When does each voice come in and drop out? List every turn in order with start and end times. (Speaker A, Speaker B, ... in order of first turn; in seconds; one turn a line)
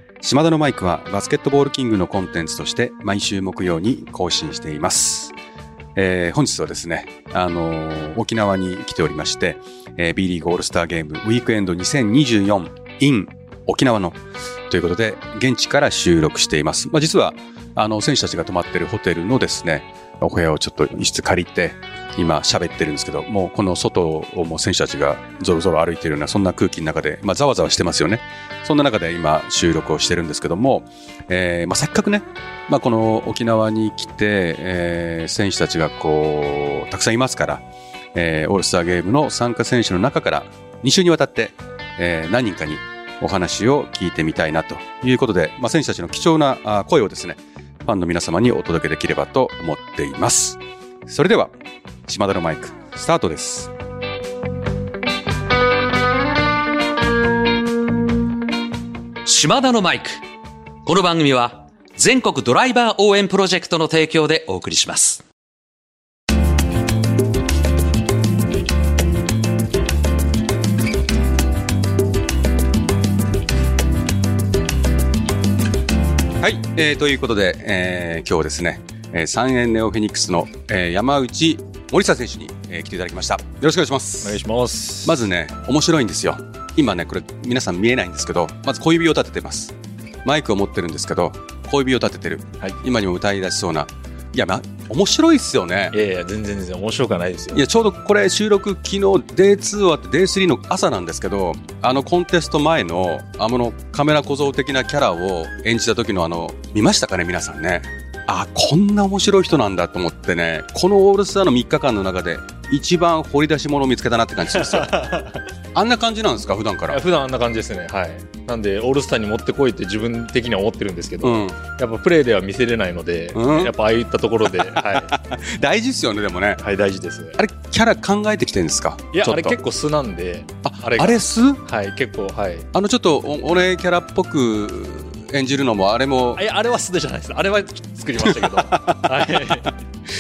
Speaker A: 0.2-5.3
Speaker A: 6.0-14.2
Speaker A: 14.7-37.6
Speaker A: 38.1-51.5
Speaker A: 52.1-53.7
Speaker B: 59.2-60.2
Speaker B: 60.9-65.2
Speaker A: 76.4-84.4
Speaker C: 84.2-85.2
Speaker A: 85.0-89.7
Speaker A: 90.2-95.9
Speaker C: 95.9-97.7
Speaker A: 97.5-115.0
Speaker C: 114.7-115.4
Speaker A: 115.8-117.0
Speaker C: 116.9-125.1
Speaker A: 121.2-121.6
Speaker A: 123.3-123.7
Speaker A: 124.5-126.6
Speaker C: 126.6-127.4
Speaker A: 127.4-129.6
Speaker C: 129.1-132.7
Speaker A: 130.7-131.6
Speaker A: 132.7-136.4
Speaker C: 136.4-139.7
Speaker A: 138.2-139.7